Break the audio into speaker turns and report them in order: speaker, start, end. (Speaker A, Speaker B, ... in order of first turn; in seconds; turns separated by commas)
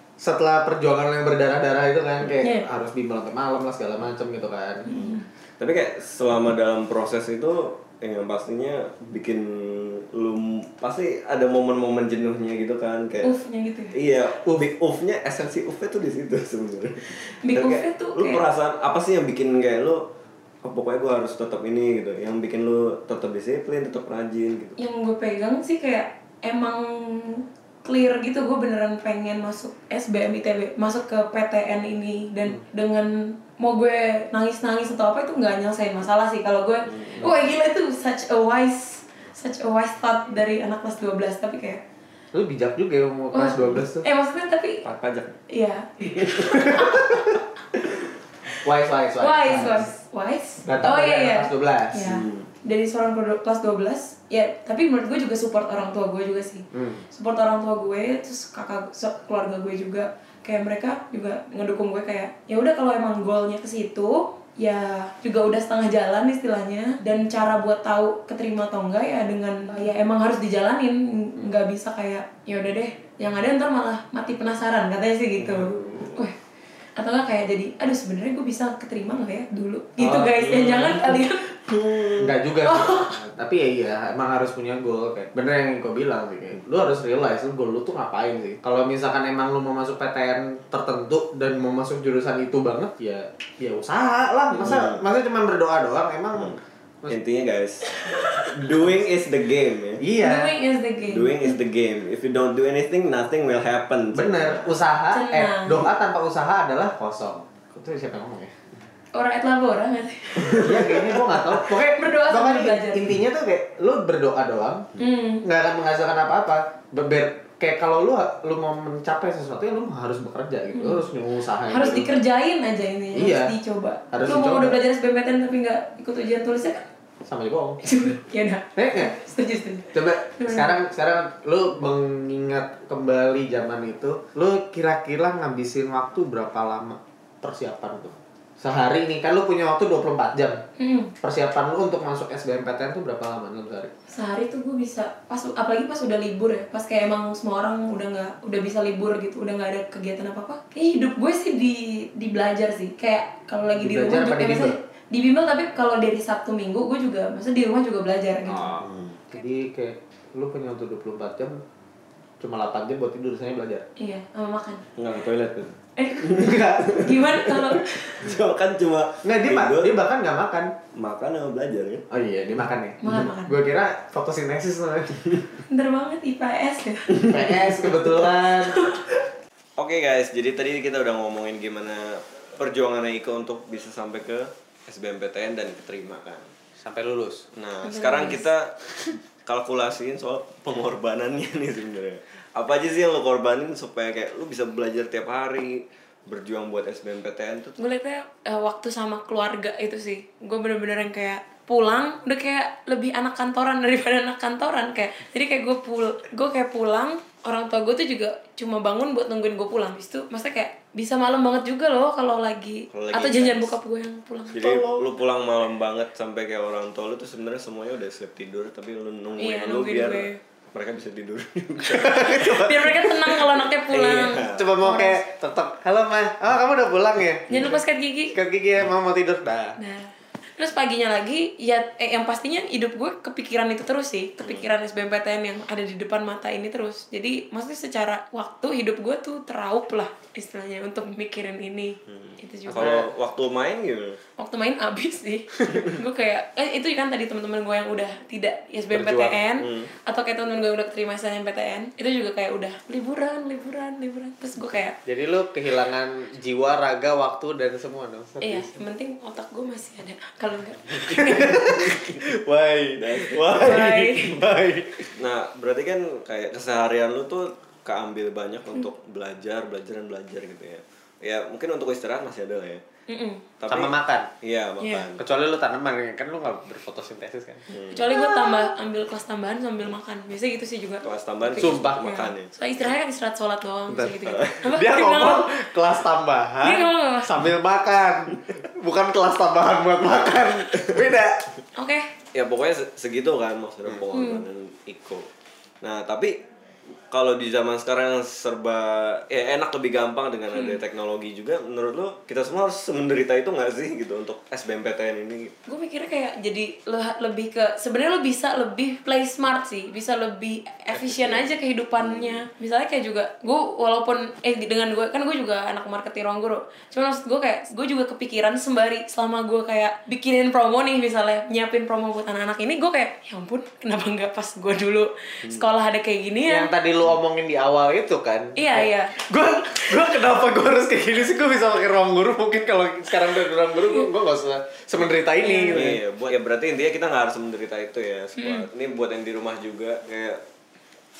Speaker A: 0.2-4.9, Speaker B: 2.4-2.7, Speaker B: 4.9-5.2, Speaker C: 4.9-13.3, Speaker B: 13.2-13.9, Speaker C: 13.9-20.0, Speaker B: 17.4-18.4, Speaker C: 20.6-24.8, Speaker B: 24.8-41.8, Speaker A: 42.3-44.1, Speaker B: 43.3-44.8, Speaker C: 44.8-45.3, Speaker B: 45.5-47.4, Speaker C: 46.2-47.2, Speaker A: 48.6-49.9, Speaker B: 49.2-76.3, Speaker A: 50.6-52.1, Speaker C: 52.0-52.5, Speaker A: 56.7-57.0, Speaker C: 75.4-76.2, Speaker B: 77.0-81.5, Speaker A: 80.0-80.6, Speaker C: 80.5-83.3, Speaker A: 82.2-97.2, Speaker B: 82.6-83.2, Speaker C: 94.6-94.9, Speaker C: 97.1-100.0, Speaker A: 98.1-98.9, Speaker A: 100.0-100.6, Speaker B: 100.2-101.5, Speaker C: 101.1-104.8, Speaker A: 104.1-108.5, Speaker B: 105.1-105.9, Speaker B: 109.1-111.1, Speaker A: 110.4-114.9, Speaker B: 111.7-113.1, Speaker B: 115.0-115.5, Speaker A: 115.4-122.1, Speaker B: 120.7-121.1, Speaker B: 121.7-126.9, Speaker A: 123.1-123.5, Speaker A: 124.1-124.8, Speaker A: 127.2-127.8, Speaker B: 127.8-130.7, Speaker A: 128.8-129.1, Speaker A: 129.9-140.6, Speaker B: 140.8-141.1, Speaker A: 141.2-143.9, Speaker B: 144.1-158.8, Speaker A: 153.8-154.8, Speaker C: 158.5-159.2, Speaker A: 159.3-161.6, Speaker A: 162.4-163.8, Speaker B: 164.0-164.9, Speaker C: 165.0-165.7, Speaker B: 166.0-168.3, Speaker C: 166.3-170.0, Speaker A: 166.3-166.9, Speaker A: 169.2-170.7, Speaker C: 170.9-172.0, Speaker A: 172.1-175.2, Speaker B: 173.0-173.6, Speaker B: 175.6-179.0, Speaker A: 177.2-178.8, Speaker C: 179.8-186.5, Speaker A: 186.8-187.5, Speaker C: 187.6-197.8, Speaker B: 187.8-188.5, Speaker B: 197.8-215.1, Speaker C: 212.9-213.8, Speaker C: 214.5-224.7, Speaker B: 219.4-220.4, Speaker B: 222.2-225.2, Speaker A: 224.5-227.7, Speaker C: 227.5-227.8, Speaker B: 227.5-228.4, Speaker A: 228.3-229.8, Speaker B: 229.8-243.1, Speaker C: 242.7-244.2, Speaker B: 244.4-255.0, Speaker A: 248.9-249.4, Speaker C: 249.6-249.9, Speaker A: 255.1-258.8, Speaker B: 258.4-261.9, Speaker A: 261.1-265.1, Speaker C: 263.0-263.9, Speaker B: 263.6-264.4, Speaker C: 265.2-272.8, Speaker B: 273.1-273.4, Speaker C: 273.6-275.2, Speaker A: 273.7-274.3, Speaker B: 274.8-275.1, Speaker A: 275.2-277.7, Speaker C: 277.7-278.1, Speaker B: 277.9-285.4, Speaker C: 281.0-282.5, Speaker A: 281.6-282.0, Speaker A: 283.9-291.4, Speaker C: 284.2-284.7, Speaker B: 286.6-287.4, Speaker B: 291.8-292.1, Speaker C: 292.3-295.3, Speaker B: 294.1-294.5, Speaker C: 295.8-296.4, Speaker C: 297.1-305.5, Speaker B: 300.5-300.8, Speaker B: 305.7-326.7, Speaker C: 310.9-312.5, Speaker A: 326.5-336.0, Speaker B: 328.6-329.2, Speaker B: 335.4-335.9, Speaker C: 335.7-340.4, Speaker B: 338.4-338.7